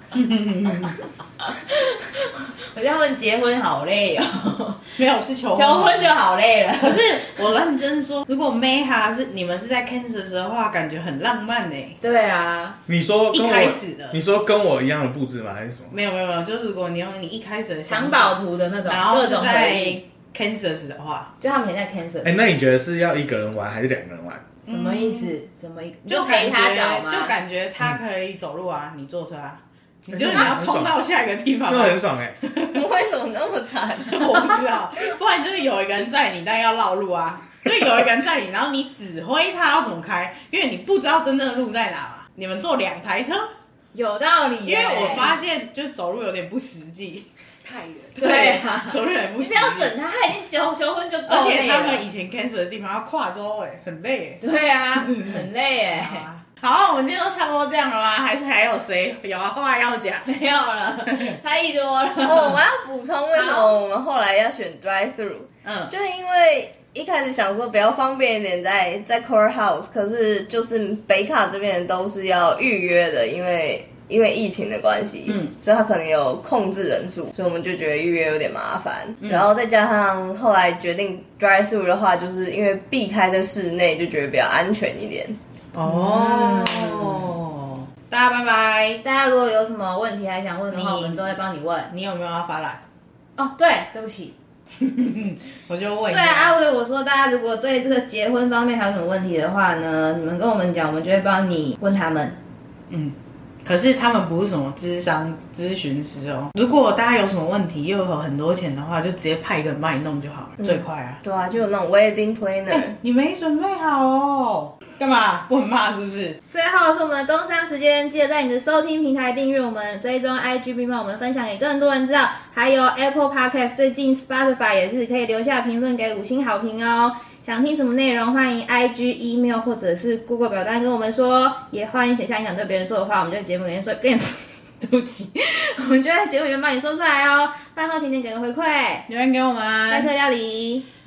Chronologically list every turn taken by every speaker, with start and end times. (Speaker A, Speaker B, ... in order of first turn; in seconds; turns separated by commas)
Speaker A: 0.1-0.9, Speaker B: 1.7-4.9, Speaker A: 5.0-6.1, Speaker B: 5.5-7.4, Speaker A: 6.8-11.9, Speaker B: 12.0-12.8, Speaker C: 12.9-15.9, Speaker A: 13.3-14.2, Speaker A: 15.9-21.3, Speaker B: 17.9-20.0, Speaker B: 21.4-22.4, Speaker C: 22.2-24.5, Speaker B: 24.6-27.3, Speaker A: 24.7-25.3, Speaker A: 26.1-32.8, Speaker C: 30.1-30.9, Speaker C: 31.7-32.4, Speaker D: 32.7-34.3, Speaker A: 34.0-43.5, Speaker B: 43.9-45.3, Speaker A: 44.6-47.3, Speaker A: 47.8-49.9, Speaker B: 48.2-52.0, Speaker A: 51.3-54.4, Speaker B: 54.4-56.2, Speaker A: 55.0-55.4, Speaker A: 55.9-60.3, Speaker B: 60.2-62.6, Speaker A: 61.1-61.4, Speaker D: 62.2-85.4, Speaker B: 63.3-63.8, Speaker A: 65.6-65.9, Speaker A: 75.2-75.5, Speaker A: 79.2-79.5, Speaker A: 85.7-89.0, Speaker B: 85.9-87.0, Speaker B: 89.0-91.9, Speaker A: 90.7-92.8, Speaker B: 93.4-94.3, Speaker A: 94.8-96.6, Speaker B: 96.1-102.4, Speaker A: 102.9-111.2, Speaker D: 110.6-113.0, Speaker A: 112.7-116.4, Speaker B: 116.5-139.1, Speaker A: 139.1-140.1, Speaker B: 139.9-140.8